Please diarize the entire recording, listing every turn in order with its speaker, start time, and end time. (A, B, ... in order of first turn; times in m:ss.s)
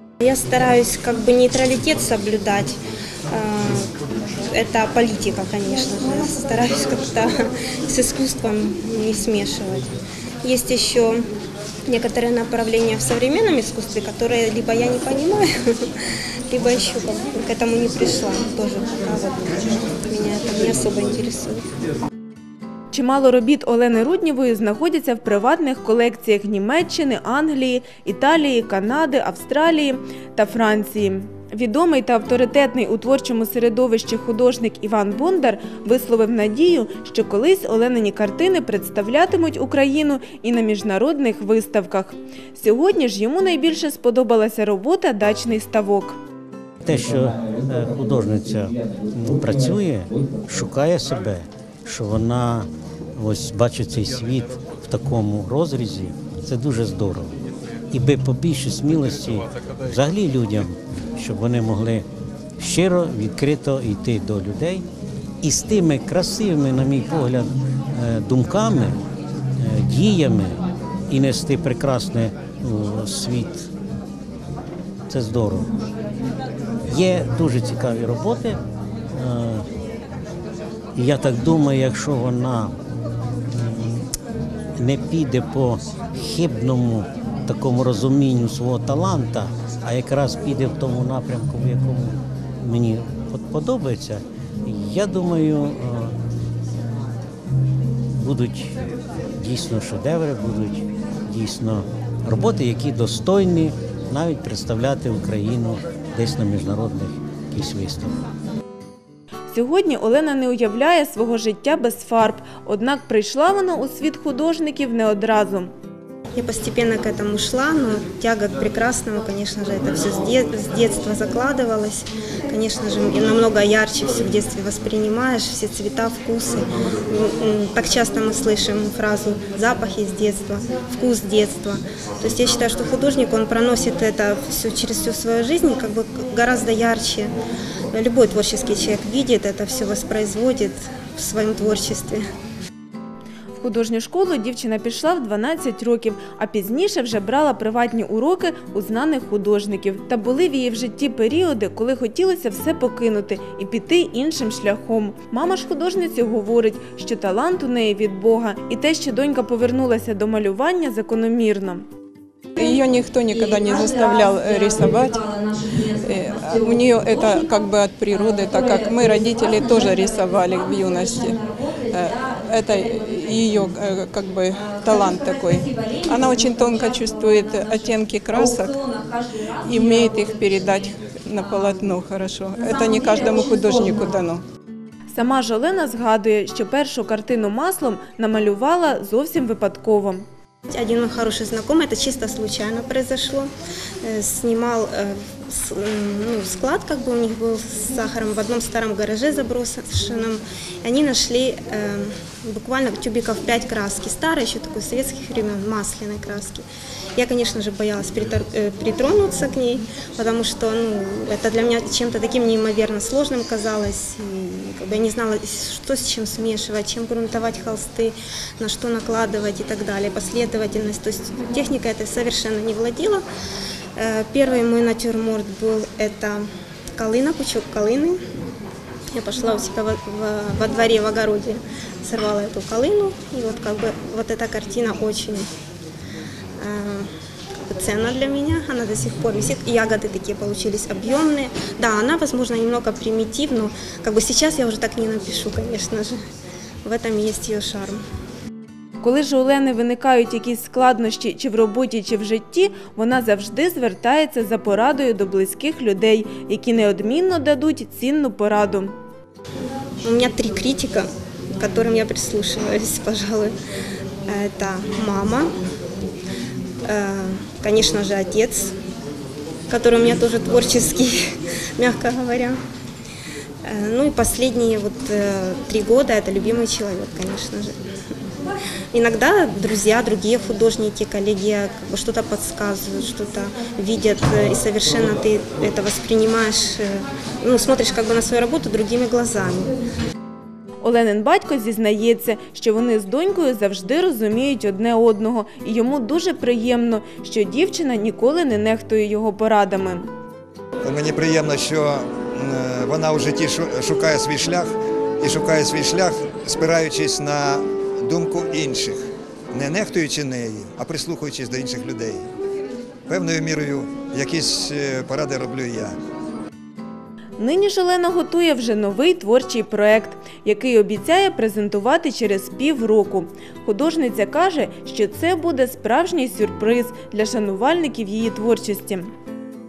0:00.2-0:02.8 A
0:03.3-0:03.9 A
0:04.5-0:09.9 A
0:10.4-0:11.2 A
0:11.9-0:15.9 A
0:16.5-0:21.6 A
0:22.9-0:46.2 B
0:46.8-0:57.3 C
0:57.9-1:02.0 C
1:02.6-1:04.8 C
1:05.4-1:09.0 C
1:09.6-1:13.7 C
1:15.1-1:15.7 C
1:16.9-1:18.6 C
1:19.1-1:19.6 C
1:21.0-1:22.8 C
1:23.5-1:24.1 C
1:24.8-1:36.2 C
1:38.2-1:38.8 C
1:39.4-1:48.2 C
1:49.5-1:55.7 B
1:56.4-2:17.3 A
2:17.9-2:22.2 A
2:23.6-2:41.8 B
2:42.5-2:45.3 D
2:46.0-2:51.4 D
2:51.9-2:58.8 D
2:59.6-3:04.4 D
3:05.1-3:10.2 B
3:10.7-3:13.5 A
3:14.0-3:26.6 A
3:27.2-3:43.2 A
3:44.0-3:48.2 A
3:49.1-3:55.5 A
3:56.6-4:06.2 A
4:06.8-4:08.0 A
4:09.0-4:18.9 B
4:20.0-4:23.5 A
4:24.3-4:25.5 A
4:26.8-4:28.7 A
4:29.7-4:32.6 A
4:33.6-4:37.8 A
4:38.9-4:49.7 A
4:50.8-5:00.1 B
5:00.8-5:09.0 E
5:09.5-5:12.2 E
5:13.1-5:16.0 E
5:17.4-5:29.1 B